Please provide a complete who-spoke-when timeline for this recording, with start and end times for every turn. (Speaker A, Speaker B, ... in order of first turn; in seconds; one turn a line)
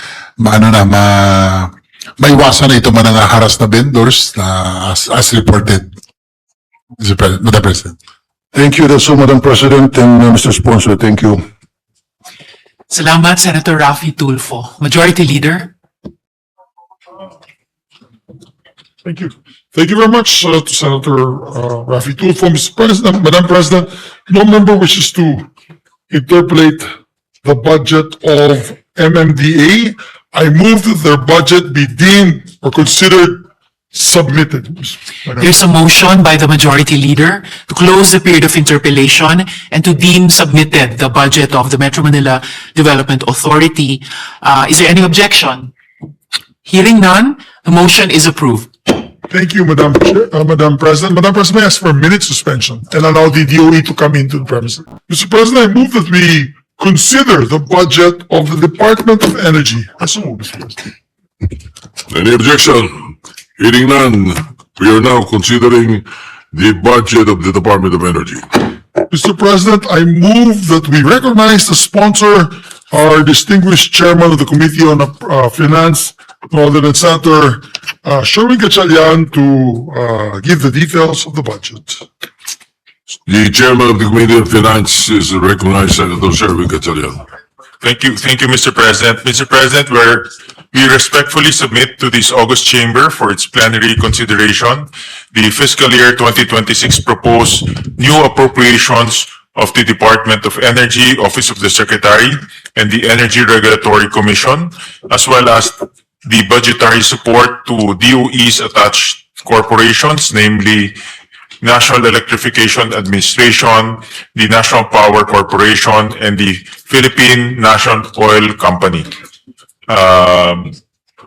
Speaker A: 0.4-5.9
Speaker A: 7.0-8.0
Speaker B: 8.5-11.4
Speaker C: 12.9-15.7
Speaker D: 19.0-25.5
Speaker D: 26.1-26.9
Speaker D: 27.4-35.5
Speaker C: 35.4-45.7
Speaker C: 46.6-48.9
Speaker D: 49.3-60.8
Speaker E: 62.1-68.7
Speaker D: 69.1-82.0
Speaker E: 83.3-87.2
Speaker F: 87.8-111.0
Speaker F: 111.6-119.1
Speaker F: 119.9-120.8